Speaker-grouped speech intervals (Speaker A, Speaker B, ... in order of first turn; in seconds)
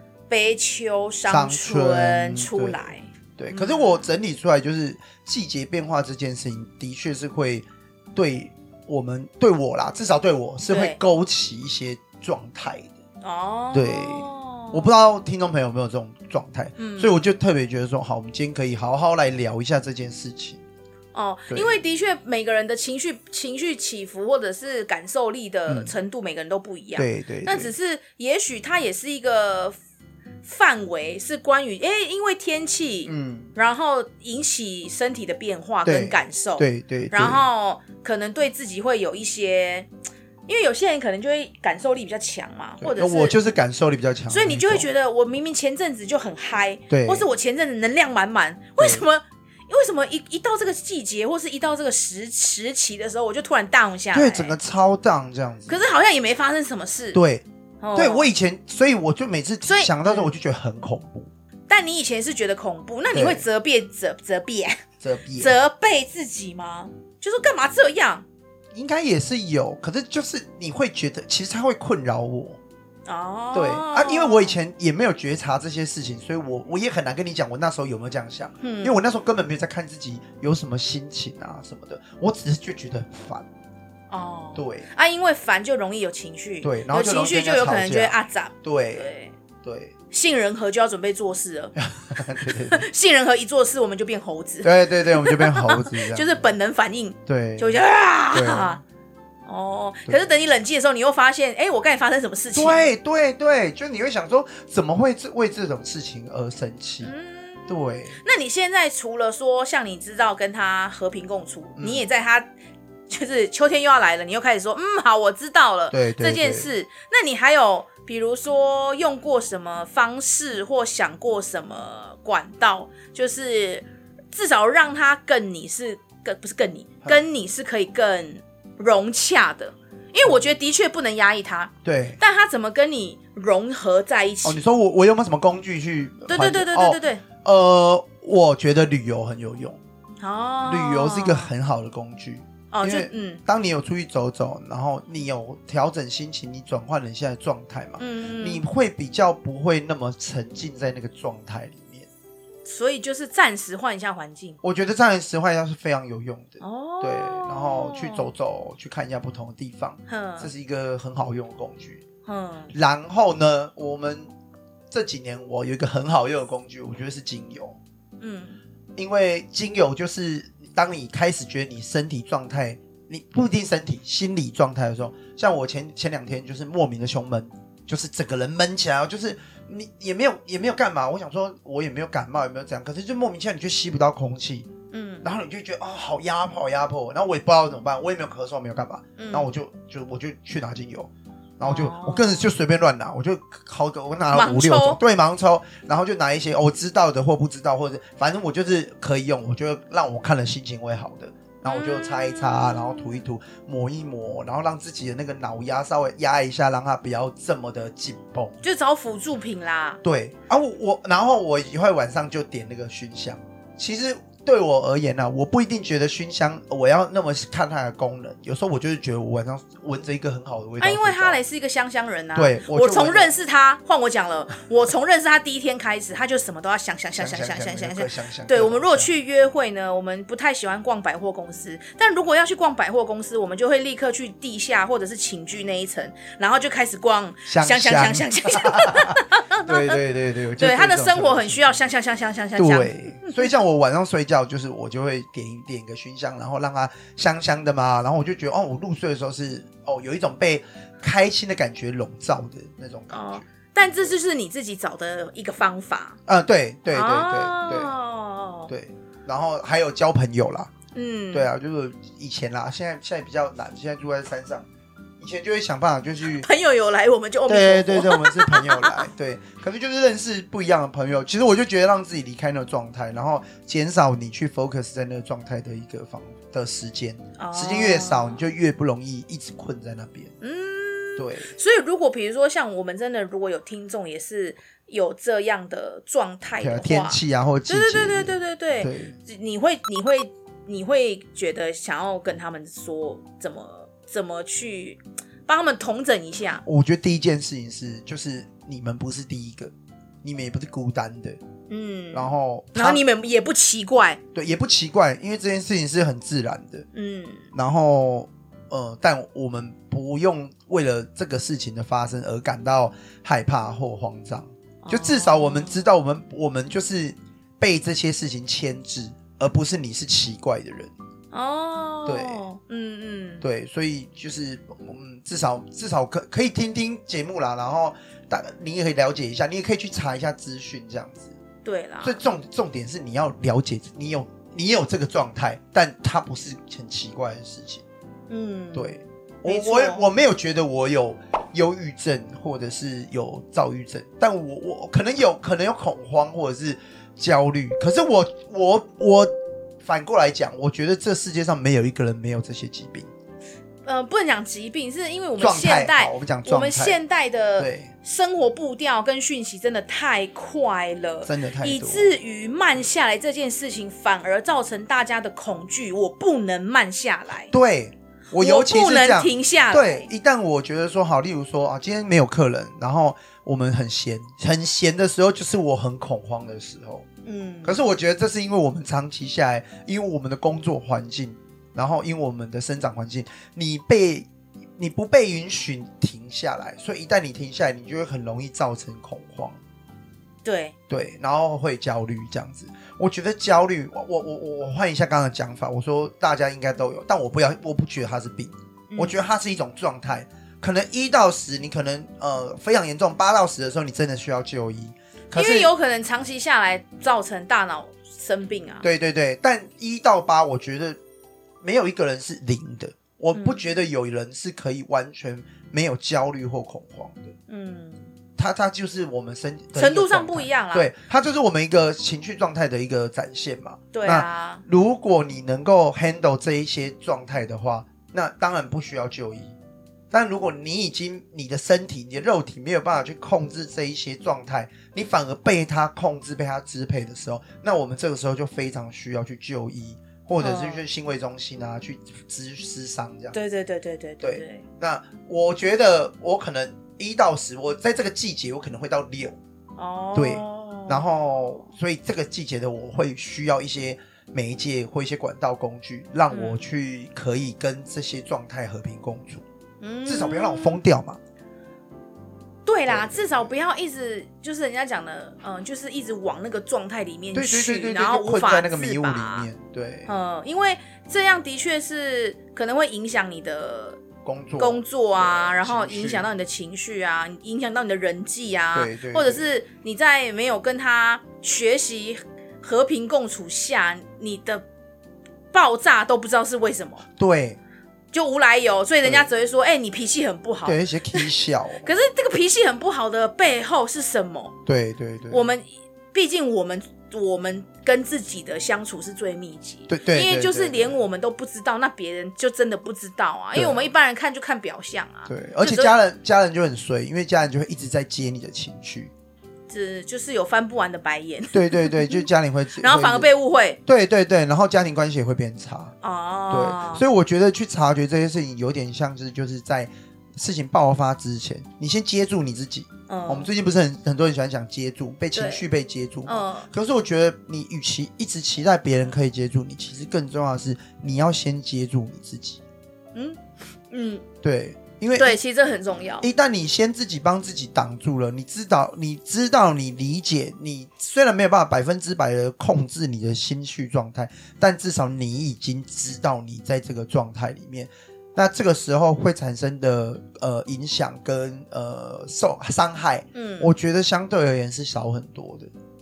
Speaker A: 0.3-4.1, 10.7-11.0, 13.2-14.9, 16.8-17.2, 21.1-29.8, 30.4-39.9, 40.5-43.4, 44.3-54.6, 55.7-57.2, 57.8-58.3, 59.7-60.3, 61.7-64.8, 65.4-68.2, 73.1-74.6, 78.6-79.0, 84.1-89.3, 90.1-91.8, 92.7-98.8, 99.5-102.9, 107.0-112.5, 113.1-134.6, 136.3-137.2, 140.2-141.5, 142.7-143.4, 148.0-148.6, 152.7-154.6, 156.6-158.3, 160.1-160.5, 162.3-162.7, 168.2-168.6, 184.9-185.2, 189.2-189.5, 191.6-192.5, 194.3-195.0, 201.7-203.0, 208.6-210.0, 220.8-240.0, 240.6-243.5, 253.1-256.2, 256.9-258.7, 260.9-261.5, 266.4-269.1, 277.4-278.4, 280.4-296.6, 301.7-304.2, 306.9-307.5, 314.8-315.8, 321.3-323.4, 331.6-332.2, 338.3-340.1, 353.9-367.5, 368.4-370.1, 377.2-377.8, 390.4-390.7, 398.9-399.2, 405.3-408.9, 413.3-413.6, 417.5-418.1, 419.8-420.9, 423.9-424.6, 440.4-440.9, 443.3-444.6, 449.8-451.1, 456.3-456.6, 459.8-460.8, 462.7-469.5, 470.1-474.0, 474.6-484.7, 485.5-487.1, 488.1-491.3, 491.8-494.6, 495.3-505.9, 509.7-512.3, 512.8-513.8, 516.0-517.0, 523.1-523.5, 525.3-525.6, 526.3-526.7, 533.1-534.2, 535.2-536.3, 553.3-553.7
Speaker B: 1.3-12.9, 13.7-20.6, 21.5-21.8, 25.7-25.9, 27.0-27.7, 33.1-33.5, 35.9-37.5, 42.8-44.9, 46.9-47.3, 48.8-49.0, 54.1-55.8, 57.1-61.3, 63.1-63.5, 65.0-65.6, 68.7-72.6, 73.5-83.5, 84.5-84.9, 86.6-89.1, 89.6-89.9, 91.8-92.9, 94.6-96.5, 97.3-98.8, 100.1-100.3, 102.5-107.1, 107.7-108.2, 111.8-112.0, 115.9-116.7, 131.8-132.2, 134.4-139.8, 140.7-152.1, 154.6-162.0, 162.7-164.3, 164.9-167.8, 169.0-184.7, 185.2-208.6, 210.0-221.4, 222.3-223.3, 227.2-229.1, 237.5-241.8, 242.6-253.4, 256.3-257.9, 258.7-260.7, 261.3-264.7, 265.2-266.5, 267.5-280.3, 281.2-281.5, 286.6-289.2, 296.6-299.7, 300.2-301.4, 302.1-303.0, 304.3-306.9, 307.5-320.9, 322.1-322.4, 323.4-331.4, 332.0-337.8, 338.7-353.1, 355.4-357.0, 357.6-357.9, 361.2-362.1, 367.5-377.1, 377.6-389.6, 390.9-405.7, 408.8-411.0, 411.6-417.4, 418.4-429.6, 430.1-443.4, 444.2-449.4, 450.1-459.4, 460.1-461.2, 462.9-463.5, 467.3-470.1, 474.2-476.3, 478.7-479.4, 487.2-487.6, 489.0-489.3, 490.6-491.9, 494.7-495.5, 499.9-501.0, 503.5-503.9, 505.3-509.1, 511.5-513.3, 513.9-515.9, 516.5-532.6, 534.4-535.4, 536.2-555.7